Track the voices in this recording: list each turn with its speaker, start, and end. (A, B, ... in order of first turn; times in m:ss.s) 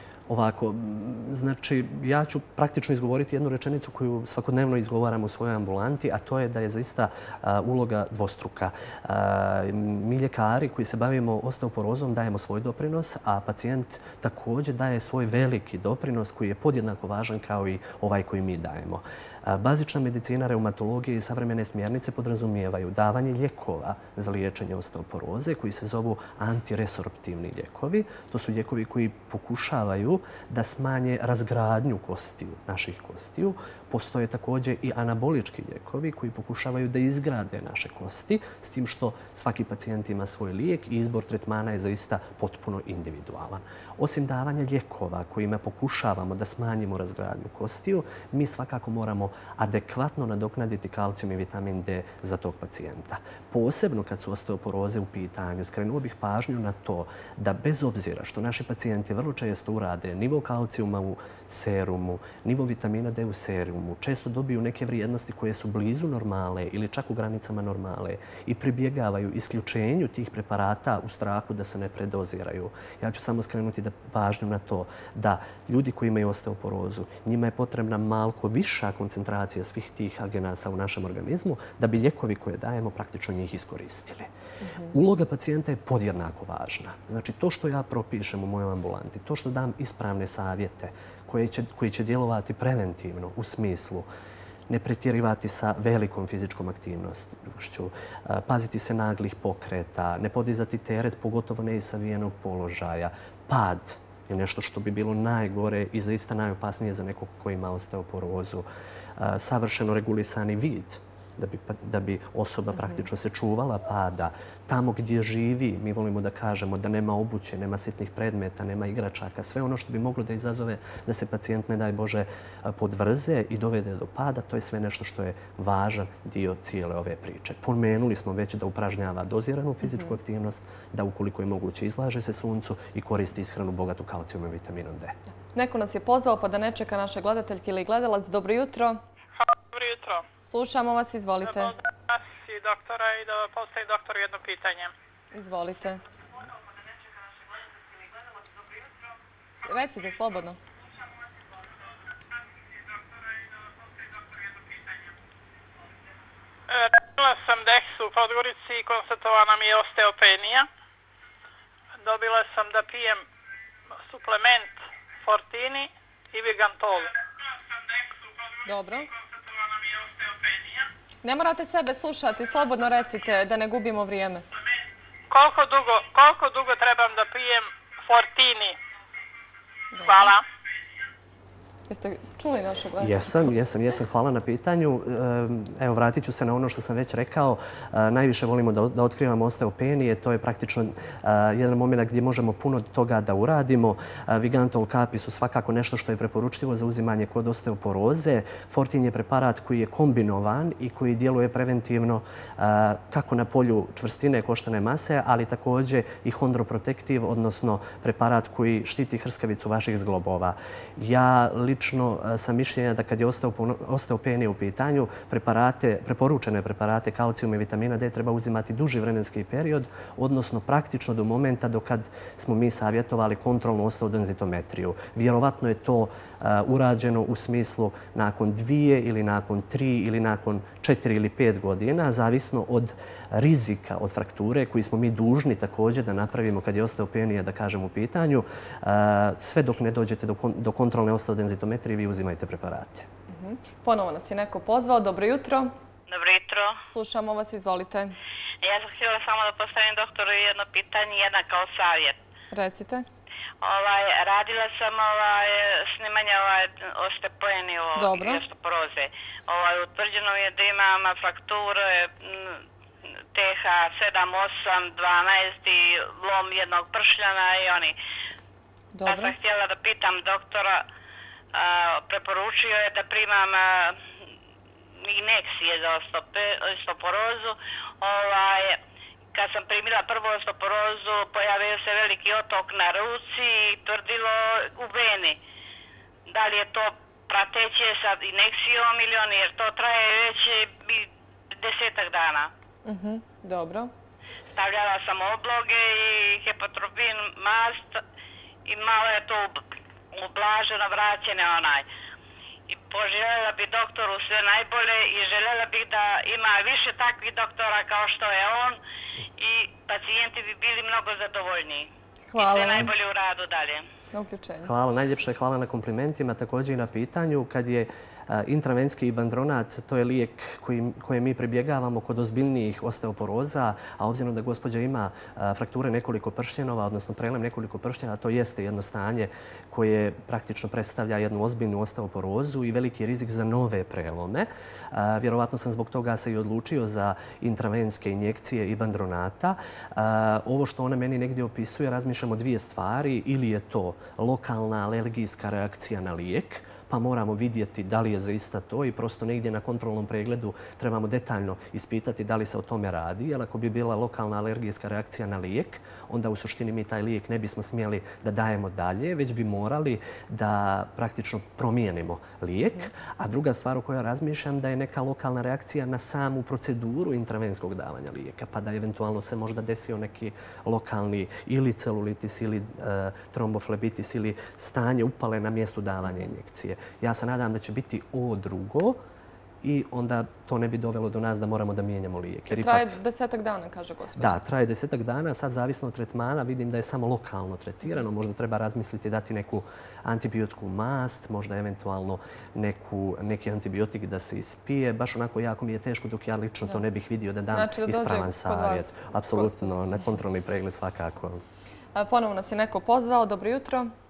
0:00.3-1:24.3 A
1:24.6-1:24.9 B
1:24.9-1:34.1 A
1:34.7-1:48.6 A
1:49.2-2:15.2 A
2:09.8-2:10.1 B
2:15.5-2:19.0 B
2:19.4-2:20.2 C
2:20.4-2:21.7 B
2:21.5-2:24.9 C
2:25.3-2:26.0 B
2:29.6-2:30.6 B
2:32.8-2:35.1 C
2:36.7-2:40.7 C
2:42.0-2:43.2 C
2:43.9-2:48.6 C
2:48.6-2:49.1 B
2:49.1-2:50.9 C
2:51.2-2:54.4 B
2:55.3-2:58.8 C
2:59.9-3:00.3 B
3:00.0-3:00.4 C
3:01.9-3:03.2 B
3:03.0-4:03.1 A
4:03.3-4:05.7 B
4:06.1-4:06.8 D
4:06.9-4:08.2 B
4:08.6-4:12.2 D
4:12.5-4:13.0 B
4:13.6-4:22.6 D
4:18.0-4:18.4 B
4:23.3-4:27.9 D
4:28.9-4:29.3 B
4:29.0-4:30.8 D
4:31.5-4:34.0 D
4:35.0-4:38.8 D
4:39.3-4:45.4 D
4:46.3-4:52.5 D
4:52.8-4:53.9 B
4:54.5-4:58.0 D
4:58.6-5:01.8 D
5:02.7-5:08.8 D
5:09.4-5:13.8 D
5:12.3-5:12.9 B
5:14.1-5:14.7 B
5:14.6-6:19.0 A
6:19.6-6:22.9 A
6:22.5-6:24.4 B
6:24.2-6:41.4 A
6:37.5-6:39.7 B
6:41.9-6:43.9 B